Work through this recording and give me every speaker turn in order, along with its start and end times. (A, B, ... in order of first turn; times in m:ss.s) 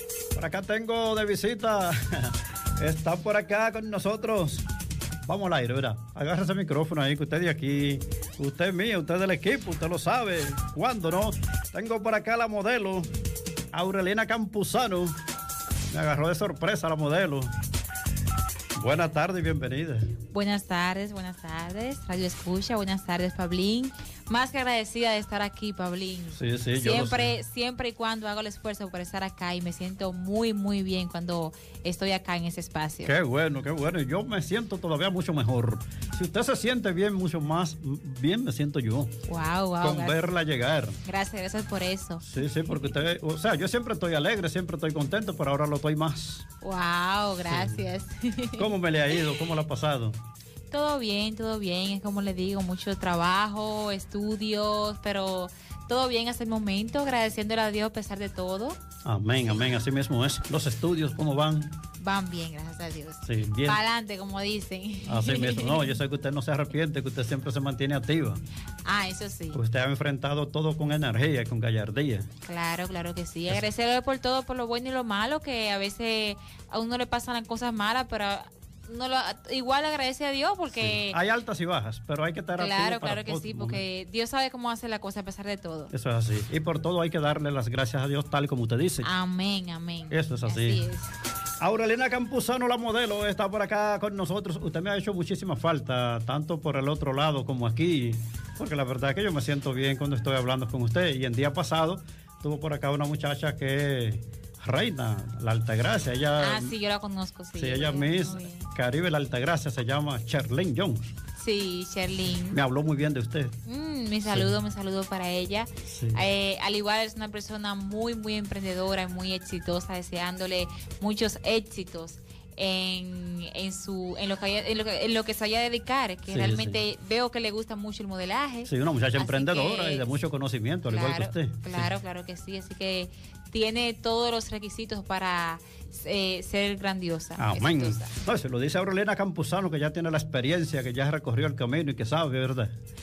0:00.4-0:04.6 A
0:05.3-0:13.1 A
0:13.7-0:15.2 A
0:15.9-0:17.5 A
0:18.8-0:20.1 A
0:20.3-0:33.1 B
0:26.3-0:27.3 A
0:33.0-0:39.1 A
0:39.3-0:40.2 B
0:39.8-0:41.0 A
0:41.0-0:42.2 B
0:42.2-0:46.5 A
0:46.6-0:48.7 B
0:47.5-0:47.8 A
0:48.6-0:50.2 A
0:50.7-0:58.8 B
0:59.0-1:01.8 A
1:02.0-1:06.0 B
1:03.3-1:03.8 A
1:05.1-1:08.4 A
1:08.8-1:09.6 B
1:09.5-1:12.3 A
1:12.5-1:21.2 B
1:20.7-1:23.8 A
1:22.6-1:25.9 B
1:25.9-1:29.1 A
1:29.0-1:31.1 B
1:30.1-1:30.8 A
1:31.6-1:46.7 A
1:46.4-1:48.7 B
1:47.6-1:51.2 A
1:51.4-1:52.6 B
1:52.5-1:53.6 A
1:53.6-2:10.1 B
1:54.2-1:54.5 A
1:55.9-1:56.2 A
2:06.3-2:06.8 A
2:08.6-2:11.9 A
2:10.9-2:18.1 B
2:17.4-2:22.7 A